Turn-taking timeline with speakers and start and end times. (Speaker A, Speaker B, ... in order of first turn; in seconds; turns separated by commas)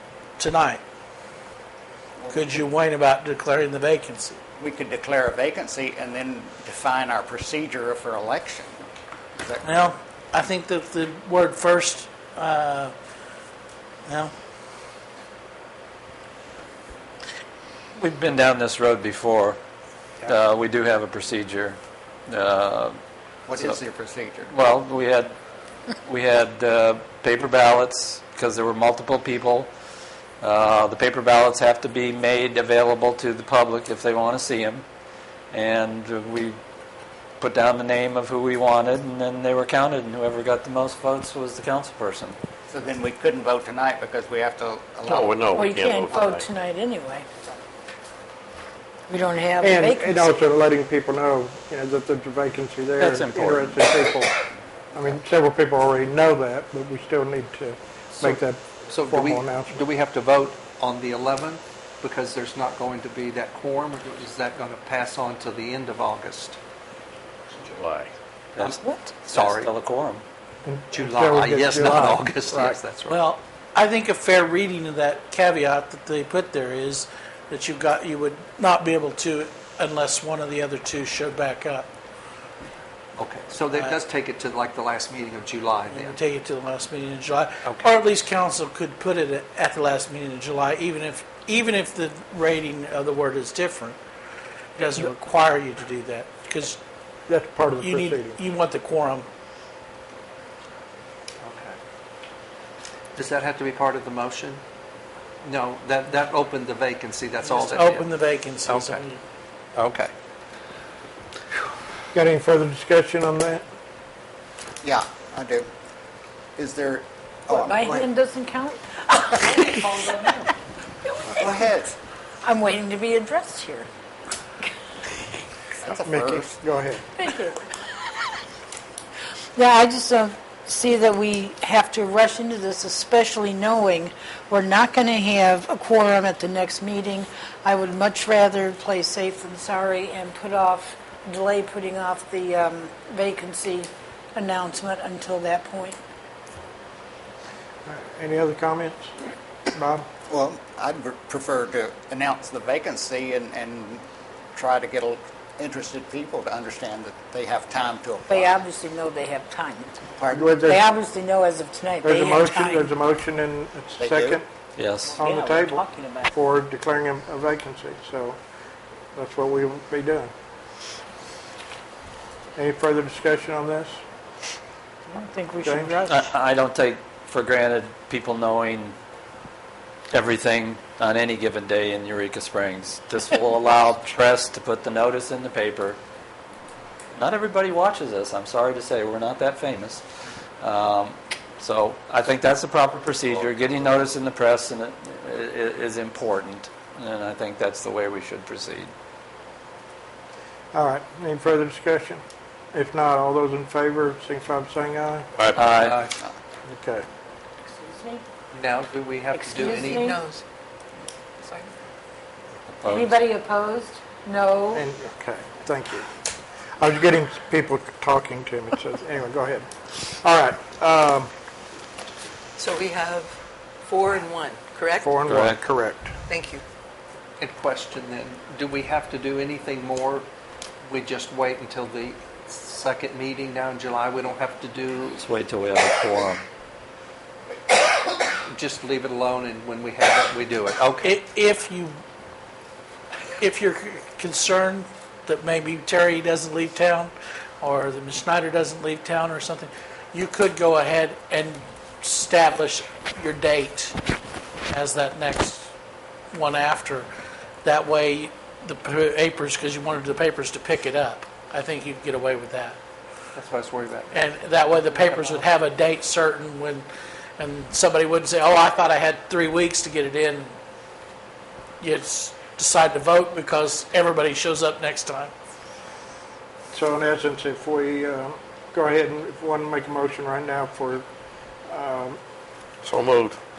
Speaker A: 0.4-0.8, Speaker B: 2.2-2.6, Speaker A: 2.3-4.4, Speaker B: 4.6-8.8, Speaker B: 9.4-9.7, Speaker A: 9.6-12.9, Speaker A: 14.1-14.3, Speaker C: 17.9-19.6, Speaker C: 20.2-22.9, Speaker B: 23.5-24.5, Speaker C: 24.5-25.4, Speaker C: 26.0-29.7, Speaker C: 30.4-34.8, Speaker C: 35.5-36.6, Speaker C: 37.4-42.4, Speaker B: 42.7-46.4, Speaker D: 45.1-46.5, Speaker E: 45.5-47.5, Speaker E: 49.1-50.3, Speaker F: 49.6-54.3, Speaker C: 53.0-53.9, Speaker F: 54.9-59.9, Speaker G: 58.2-66.6, Speaker D: 67.6-68.1, Speaker G: 68.5-69.7, Speaker C: 68.6-70.2, Speaker E: 68.8-69.1, Speaker F: 70.6-72.8, Speaker G: 70.9-73.2, Speaker A: 73.1-81.9, Speaker G: 83.2-86.2, Speaker A: 85.9-94.0, Speaker G: 87.6-87.9, Speaker A: 94.8-96.8, Speaker F: 97.3-98.4, Speaker A: 97.8-99.2, Speaker G: 101.4-101.8, Speaker G: 103.2-104.6, Speaker G: 105.4-109.0, Speaker A: 107.6-109.2, Speaker G: 109.7-110.1, Speaker F: 112.1-113.6, Speaker B: 114.8-115.7, Speaker B: 116.6-118.1, Speaker E: 117.5-120.5, Speaker B: 121.3-122.0, Speaker E: 122.4-123.9, Speaker B: 125.8-126.5, Speaker F: 125.8-127.1, Speaker E: 127.2-128.3, Speaker E: 129.6-146.0, Speaker F: 147.8-149.1, Speaker F: 149.7-150.1, Speaker B: 150.3-158.6, Speaker E: 158.3-159.9, Speaker B: 160.2-160.5, Speaker F: 160.3-160.9, Speaker E: 160.6-162.9, Speaker F: 162.0-164.4, Speaker B: 164.0-164.4, Speaker C: 164.8-165.2, Speaker E: 165.0-166.3, Speaker F: 165.2-168.4, Speaker F: 169.1-170.3, Speaker F: 172.6-174.0, Speaker E: 175.1-176.2, Speaker F: 175.6-176.0, Speaker C: 176.1-178.9, Speaker C: 180.1-186.0, Speaker C: 187.1-190.1, Speaker C: 190.6-198.9, Speaker F: 200.7-202.2, Speaker F: 202.7-205.3, Speaker D: 205.3-205.8, Speaker C: 205.5-206.1, Speaker G: 205.7-206.1, Speaker F: 206.6-207.1, Speaker E: 207.7-208.2, Speaker G: 208.5-210.1, Speaker E: 209.3-210.2, Speaker H: 210.0-210.4, Speaker H: 211.4-211.7, Speaker C: 212.8-213.2, Speaker E: 212.8-214.8, Speaker F: 214.7-216.2, Speaker F: 216.8-221.3, Speaker H: 222.6-225.1, Speaker F: 225.0-226.2, Speaker C: 225.2-225.6, Speaker H: 226.3-226.6, Speaker G: 227.4-230.2, Speaker G: 230.8-235.2, Speaker C: 235.2-236.4, Speaker G: 238.4-241.2, Speaker A: 241.0-241.9, Speaker A: 243.4-253.9, Speaker A: 254.7-255.7, Speaker A: 256.3-257.1, Speaker A: 257.6-262.8, Speaker G: 263.3-264.2, Speaker A: 264.1-266.9, Speaker G: 264.7-265.5, Speaker A: 267.4-270.5, Speaker A: 271.8-275.3, Speaker F: 276.7-281.0, Speaker F: 281.7-282.2, Speaker D: 282.8-283.4